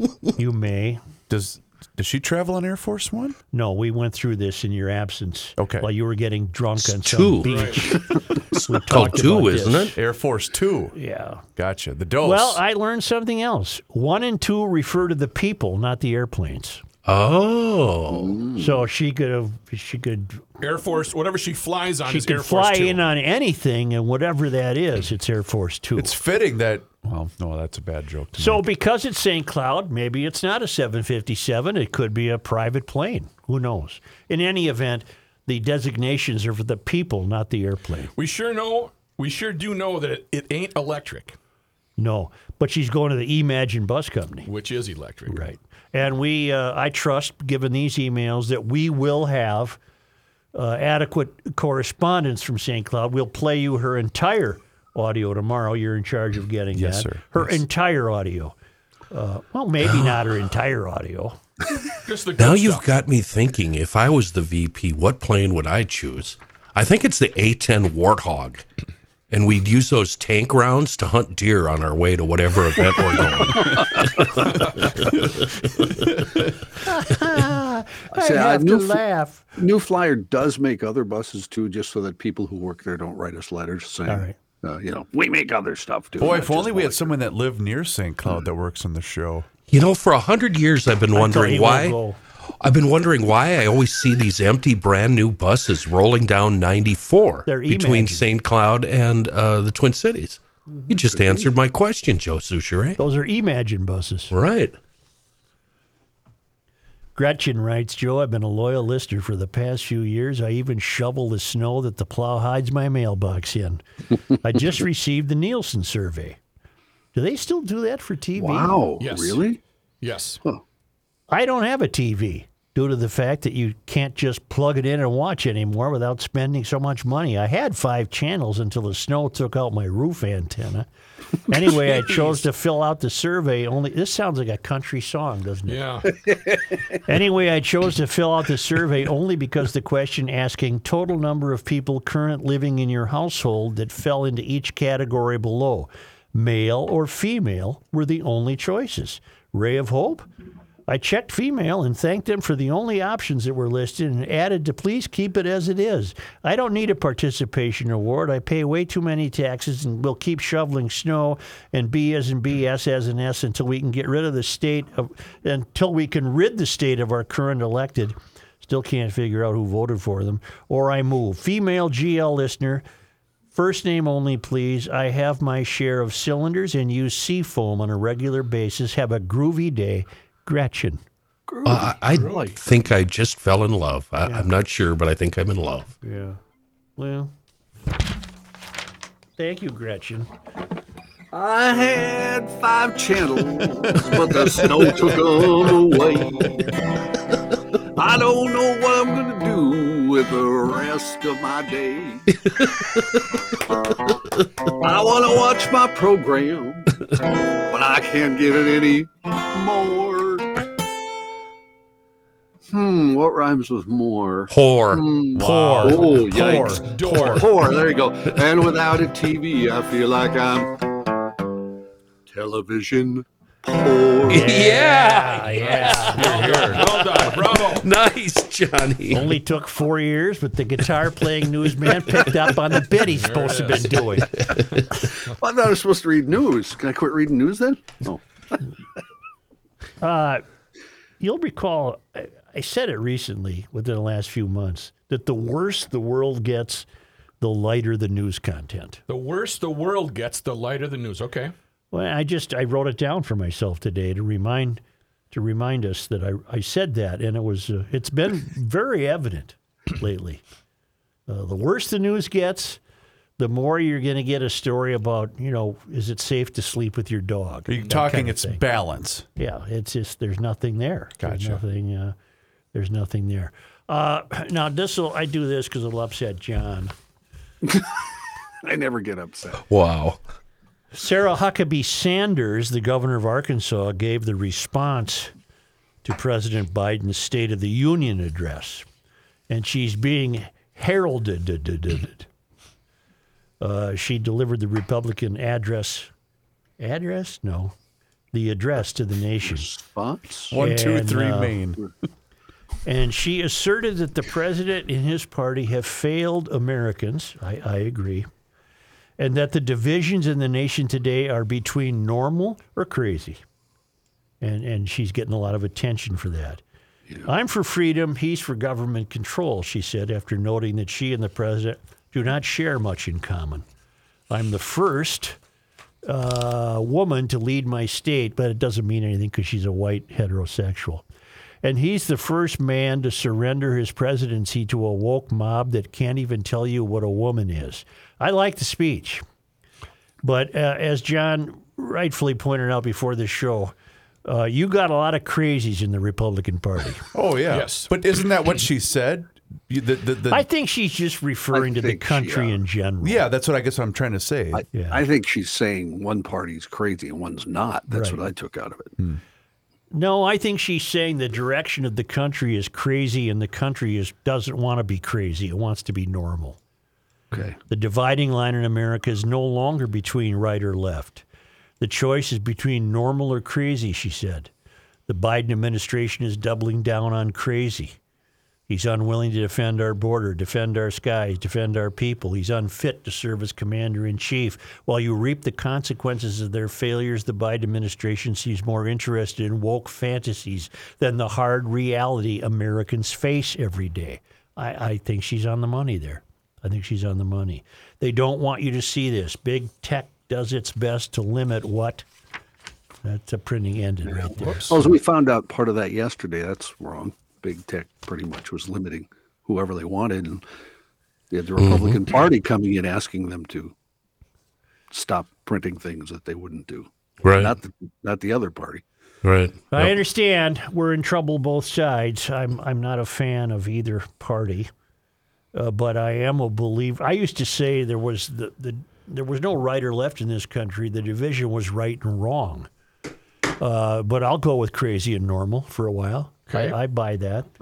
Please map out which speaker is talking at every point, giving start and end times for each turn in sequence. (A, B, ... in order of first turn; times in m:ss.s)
0:00.4-0:01.0 A
0:01.3-0:03.4 B
0:03.5-0:10.0 A
0:05.6-0:05.9 B
0:06.8-0:07.8 C
0:07.4-0:07.8 D
0:08.5-0:10.0 C
0:10.0-0:11.0 B
0:11.0-0:11.4 A
0:11.6-0:12.6 B
0:12.2-0:16.8 A
0:17.0-0:18.4 C
0:18.1-0:18.8 E
0:18.6-0:20.5 A
0:20.6-0:23.1 D
0:22.1-0:26.2 A
0:26.0-0:28.6 B
0:28.4-0:38.1 A
0:38.2-0:41.4 D
0:42.0-0:44.5 A
0:44.5-0:45.4 D
0:45.3-0:49.8 A
0:50.6-0:58.6 A
0:56.7-0:57.6 B
0:59.1-1:01.4 A
0:59.8-1:00.2 C
1:02.0-1:02.9 D
1:02.4-1:08.6 C
1:09.3-1:16.1 C
1:16.8-1:19.4 A
1:18.1-1:19.0 E
1:19.6-1:27.1 E
1:24.1-1:24.4 A
1:26.2-1:29.5 B
1:29.7-1:32.0 C
1:31.2-1:32.2 A
1:32.6-1:43.0 C
1:37.5-1:38.3 A
1:41.1-1:41.4 E
1:43.0-1:44.3 A
1:44.3-1:44.8 C
1:47.2-1:53.8 A
1:54.4-1:56.4 A
1:57.1-1:58.8 A
1:58.4-1:59.6 E
1:59.0-1:59.4 D
2:00.0-2:00.4 D
2:01.3-2:10.9 A
2:11.4-2:16.1 A
2:15.7-2:16.1 D
2:17.0-2:30.3 A
2:30.9-2:52.8 A
2:53.5-3:01.0 A
3:01.5-3:02.6 E
3:01.6-3:05.9 C
3:06.0-3:06.4 A
3:07.0-3:07.3 A
3:09.4-3:10.3 A
3:11.3-3:16.8 E
3:17.9-3:22.4 E
3:22.6-3:22.8 C
3:24.7-3:27.0 E
3:27.6-3:30.5 E
3:32.7-3:40.9 E
3:34.5-3:35.0 C
3:35.4-3:37.5 A
3:35.4-3:35.9 B
3:36.8-3:37.5 D
3:42.3-3:44.8 E
3:44.3-3:49.4 C
3:44.3-3:46.6 A
3:45.6-3:47.9 D
3:46.4-3:46.7 B
3:49.1-3:54.3 A
3:53.1-3:54.1 D
3:54.4-3:54.9 C
3:55.3-3:58.6 E
4:00.0-4:00.4 A
4:01.2-4:06.9 A
4:07.4-4:09.0 A
4:09.1-4:11.5 D
4:11.9-4:20.4 A
4:21.3-4:22.8 A
4:23.4-4:28.6 A
4:27.7-4:29.3 B
4:29.4-4:32.2 A
4:31.2-4:31.6 B
4:32.7-4:36.9 A
4:38.6-4:39.6 E
4:39.7-4:40.2 C
4:40.9-4:45.3 A
4:46.0-4:48.9 A
4:49.5-4:52.3 A
4:53.6-4:56.1 A
4:56.8-4:57.8 A
4:58.3-4:59.7 A
4:59.4-5:00.6 E
5:00.5-5:01.8 B
5:00.5-5:01.6 A
5:02.8-5:08.3 A
5:09.2-5:13.4 A
5:14.4-5:16.6 A
5:17.2-5:23.6 A
5:24.3-5:25.4 A
5:26.0-5:31.0 A
5:31.6-5:39.2 A
5:40.2-5:43.7 A
5:44.2-5:47.1 A
5:47.1-5:50.4 B
5:47.5-5:47.9 D
5:50.3-5:53.3 A
5:51.5-5:52.6 E
5:53.0-5:54.6 B
5:54.5-5:58.9 E
5:54.7-5:55.0 A
5:57.9-5:58.2 A
5:59.9-6:06.6 A
6:07.7-6:11.2 A
6:11.8-6:14.5 A
6:15.1-6:18.0 A
6:18.7-6:42.1 A
6:43.0-6:44.8 A
6:44.7-6:50.4 E
6:51.3-6:53.7 E
6:51.6-6:52.0 C
6:54.9-6:58.8 E
6:57.2-6:57.5 C
6:59.2-7:00.0 C
6:59.7-7:04.7 A
7:05.5-7:12.7 A
7:13.6-7:17.5 A
7:16.5-7:16.8 D